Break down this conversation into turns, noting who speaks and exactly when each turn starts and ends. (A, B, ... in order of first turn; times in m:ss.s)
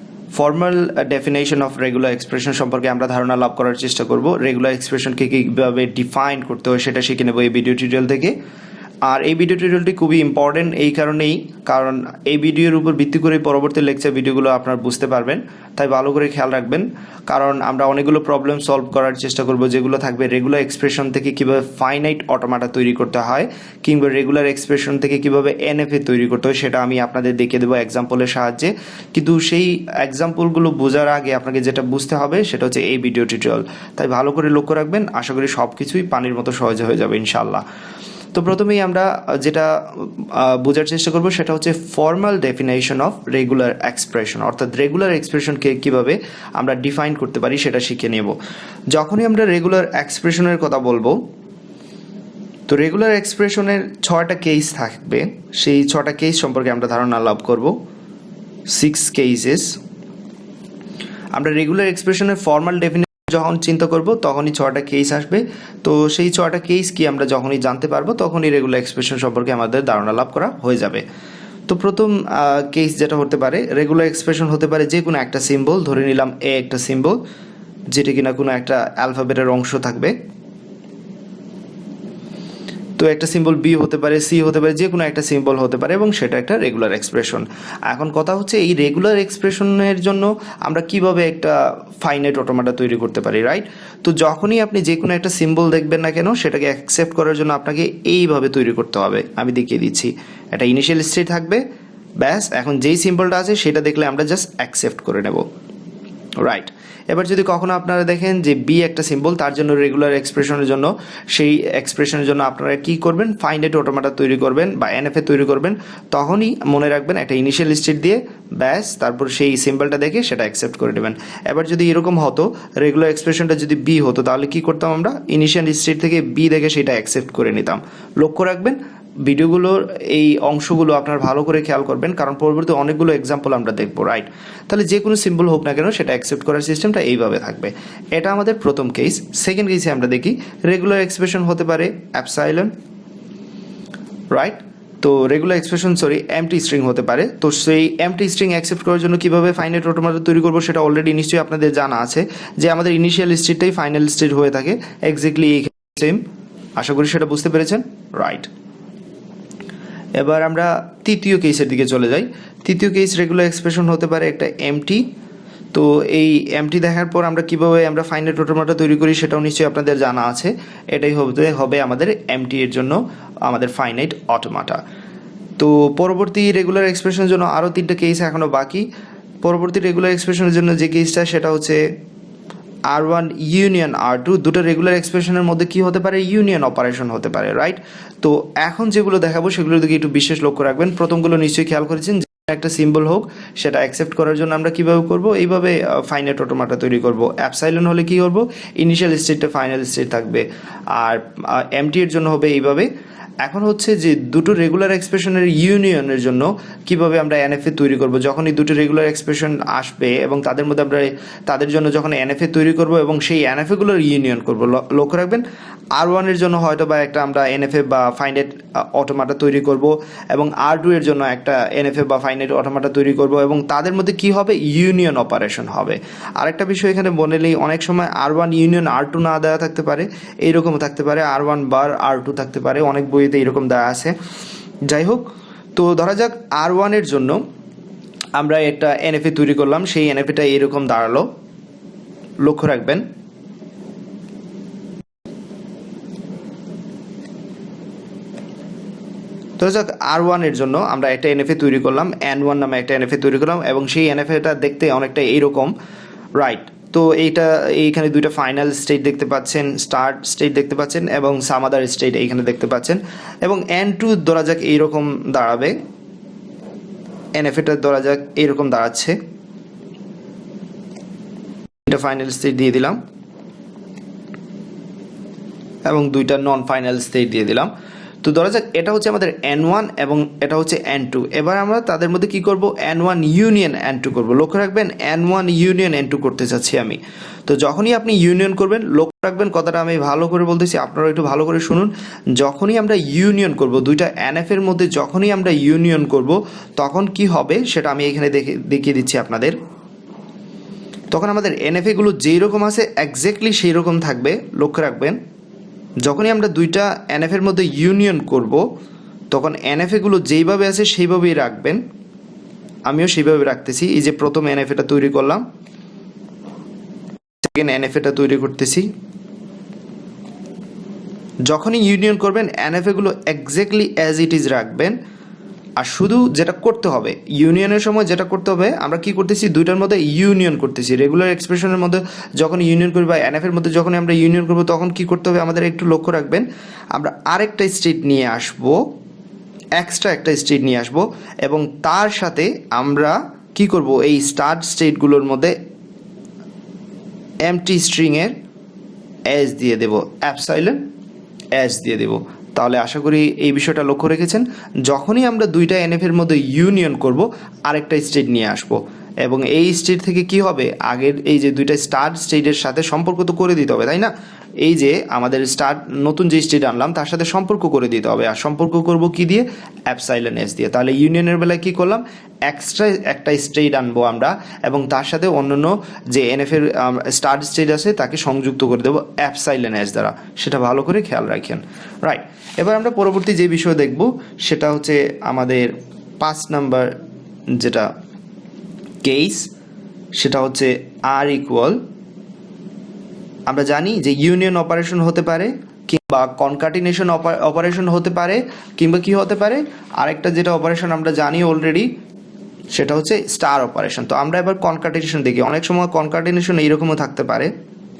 0:00.3-0:08.3 A
0:09.1-0:37.6 A
0:38.3-0:48.4 A
0:48.9-0:51.2 A
0:52.7-0:57.8 A
0:58.7-0:59.8 A
1:01.4-1:11.0 A
1:11.7-1:17.2 A
1:17.9-1:20.1 A
1:23.0-1:41.6 A
1:42.2-1:45.4 A
1:46.4-2:22.7 A
2:24.3-2:36.2 A
2:36.8-2:38.5 A
2:40.2-2:45.1 A
2:45.7-2:54.8 A
2:55.6-2:58.9 A
2:59.4-3:01.8 A
3:02.9-3:22.9 A
3:23.4-3:35.4 A
3:36.0-3:54.2 A
3:54.9-3:57.4 A
3:58.4-4:01.3 A
4:02.4-4:03.0 A
4:09.6-4:15.7 A
4:16.4-4:25.8 A
4:27.4-4:29.2 A
4:31.9-4:33.0 A
4:35.9-4:37.7 A
4:38.2-4:59.6 A
5:01.1-5:05.2 A
5:06.0-5:08.6 A
5:09.3-5:11.8 A
5:12.9-5:15.4 A
5:17.4-5:18.9 A
5:21.5-5:25.0 A
5:25.8-5:38.8 A
5:39.8-5:45.5 A
5:47.4-5:48.3 A
5:49.3-5:50.8 A
5:51.6-6:26.9 A
6:27.6-6:27.9 A
6:29.0-6:29.5 A
6:30.2-6:31.8 A
6:33.5-6:41.9 A
6:42.7-6:47.5 A